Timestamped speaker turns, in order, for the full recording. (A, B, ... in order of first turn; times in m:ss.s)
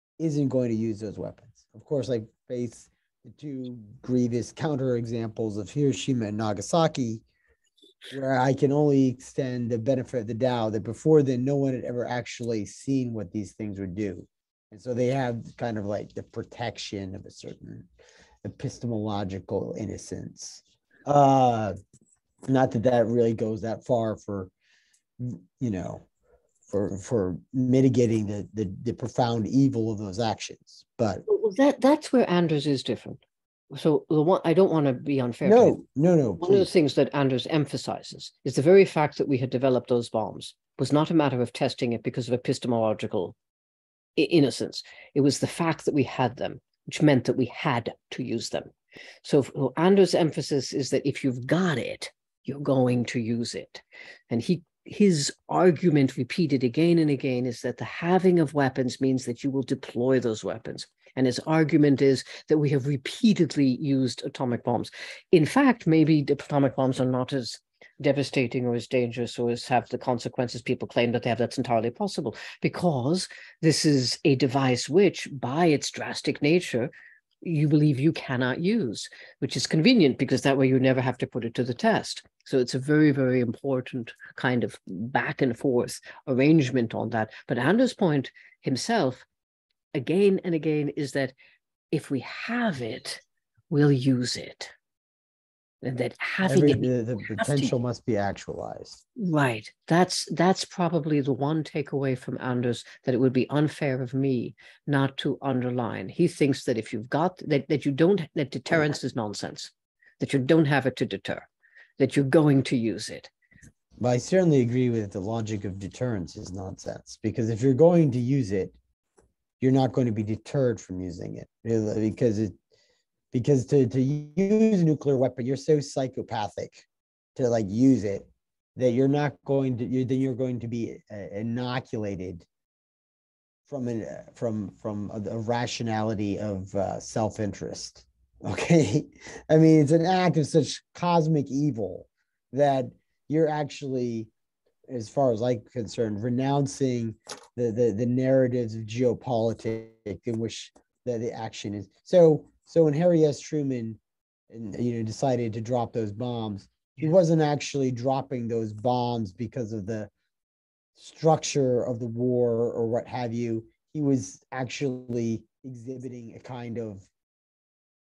0:00.2-0:07.2 A
0:08.1-0:17.9 A
0:18.4-0:21.7 A
0:22.5-0:24.5 A
0:25.2-0:26.0 A
0:26.7-0:31.2 A
0:31.3-0:33.2 B
0:33.7-0:35.8 B
0:35.4-0:36.7 A
0:36.4-0:43.4 B
0:44.2-0:48.7 B
0:49.2-1:16.9 B
1:17.4-1:29.2 B
1:29.9-1:31.3 B
1:31.9-1:34.7 B
1:35.8-1:37.7 B
1:36.4-1:39.0 A
1:39.2-1:51.5 B
1:52.0-1:53.3 B
1:54.0-1:58.8 A
1:59.6-2:02.6 A
2:03.3-2:12.4 A
2:13.7-2:24.3 A
2:24.9-2:34.0 A
2:34.5-2:40.1 A
2:41.0-2:47.1 A